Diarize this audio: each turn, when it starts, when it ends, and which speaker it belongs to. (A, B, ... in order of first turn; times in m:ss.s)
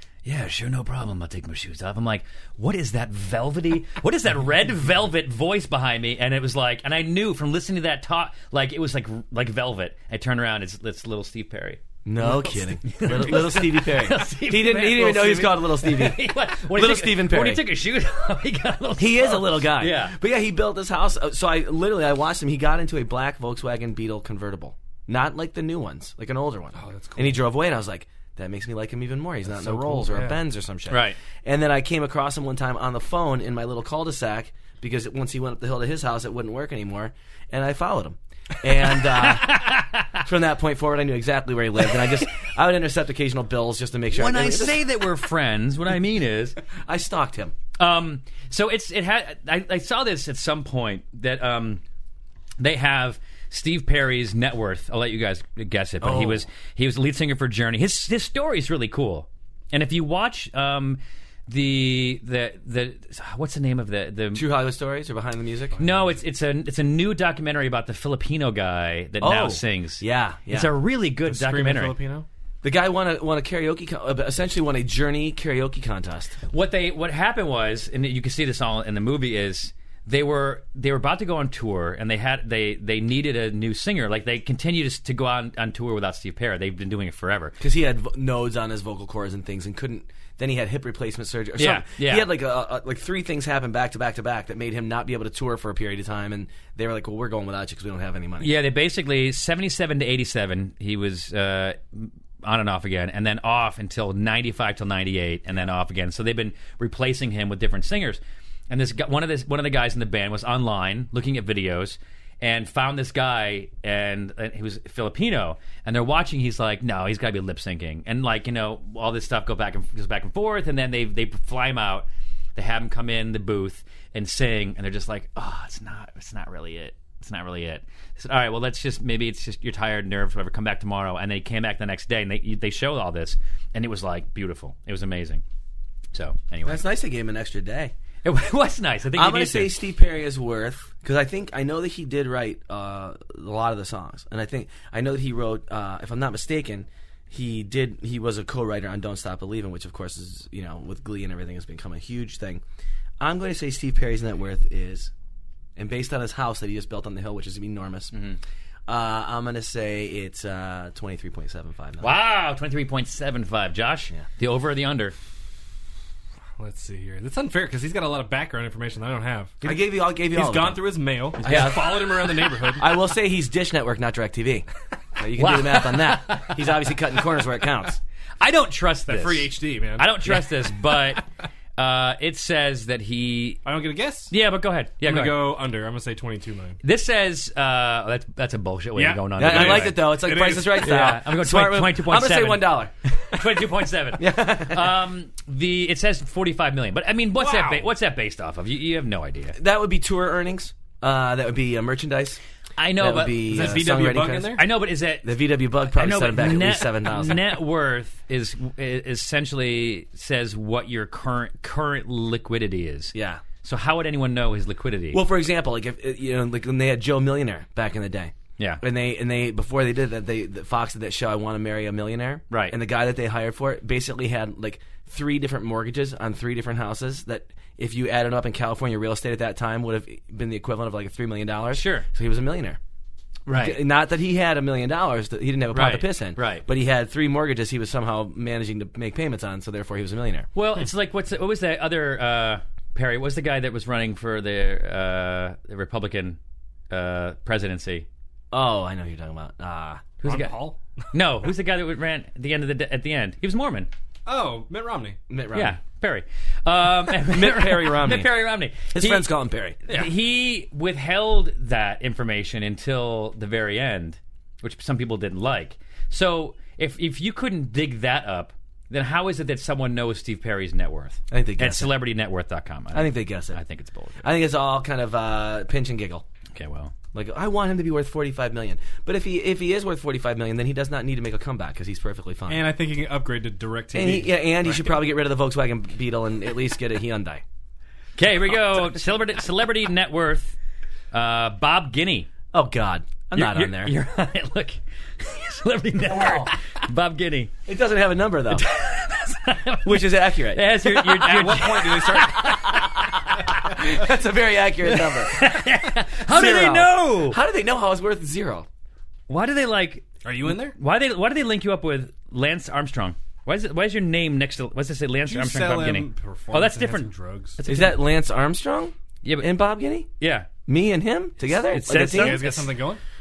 0:00.2-0:20.2 A
0:12.0-0:17.6 B
0:19.0-0:44.8 B
0:26.7-0:27.4 C
0:29.4-0:30.4 C
0:30.9-0:31.2 A
0:39.0-0:40.2 A
0:44.1-0:46.6 A
0:46.6-0:47.5 B
0:47.8-0:51.8 A
0:52.6-1:04.4 A
0:56.0-0:56.5 B
1:04.3-1:05.8 B
1:05.8-1:06.1 C
1:05.8-1:12.0 A
1:09.2-1:10.7 B
1:11.2-1:12.2 C
1:12.6-1:16.4 B
1:16.5-1:27.6 A
1:27.6-1:38.6 B
1:31.6-1:32.3 A
1:38.4-2:15.4 A
2:16.1-2:16.8 A
2:16.6-2:17.9 B
2:18.2-2:19.8 A
2:19.1-2:32.6 B
2:33.2-2:35.1 B
2:35.8-2:38.1 B
2:38.1-2:38.4 A
2:38.9-2:42.2 B
2:42.0-2:45.1 A
2:46.6-2:49.8 C
2:49.6-2:50.8 B
2:50.3-2:53.0 C
2:51.4-2:58.0 B
2:55.4-2:56.6 A
2:58.4-3:01.2 A
2:59.1-3:01.2 C
3:01.8-3:03.6 A
3:03.6-3:04.3 C
3:04.3-3:05.5 A
3:05.0-3:06.8 C
3:06.8-3:10.1 A
3:08.9-3:11.0 C
3:09.4-3:13.4 B
3:10.8-3:19.6 A
3:14.2-3:15.0 B
3:17.3-3:17.9 C
3:19.6-3:22.4 B
3:22.8-3:23.4 A
3:23.0-3:24.6 B
3:23.4-3:24.6 C
3:24.6-3:25.4 A
3:25.2-3:27.5 B
3:25.9-3:35.2 A
3:33.1-3:33.4 B
3:35.1-3:52.8 B
3:42.5-3:42.8 A
3:51.7-3:52.0 A
3:53.5-3:53.8 A
3:53.5-4:00.5 B
3:55.7-3:56.6 A
4:00.5-4:06.4 A
4:06.9-4:08.1 A
4:08.5-4:10.1 B
4:10.2-4:13.9 A
4:10.2-4:11.0 C
4:14.2-4:15.2 C
4:15.3-4:15.8 B
4:15.5-4:19.3 A
4:17.1-4:19.8 B
4:19.8-4:34.2 A
4:31.3-4:32.0 B
4:32.9-4:33.6 B
4:34.2-4:36.2 B
4:36.5-4:36.9 A
4:37.1-4:42.7 B
4:42.5-4:45.0 C
4:43.9-4:47.4 B
4:48.2-4:50.6 A
4:51.1-4:52.3 A
4:52.5-4:53.9 B
4:53.3-4:57.5 A
4:56.0-4:56.5 B
4:57.6-4:58.6 B
4:58.5-5:03.8 A
4:59.8-5:00.7 B
5:00.9-5:02.7 C
5:02.6-5:05.6 B
5:04.9-5:07.4 A
5:06.2-5:08.7 B
5:09.3-5:18.0 A
5:10.2-5:10.8 C
5:15.2-5:17.6 C
5:17.6-5:20.1 B
5:19.2-5:19.5 A
5:20.2-5:20.5 A
5:20.6-5:22.6 B
5:21.6-5:22.7 A
5:21.9-5:23.0 C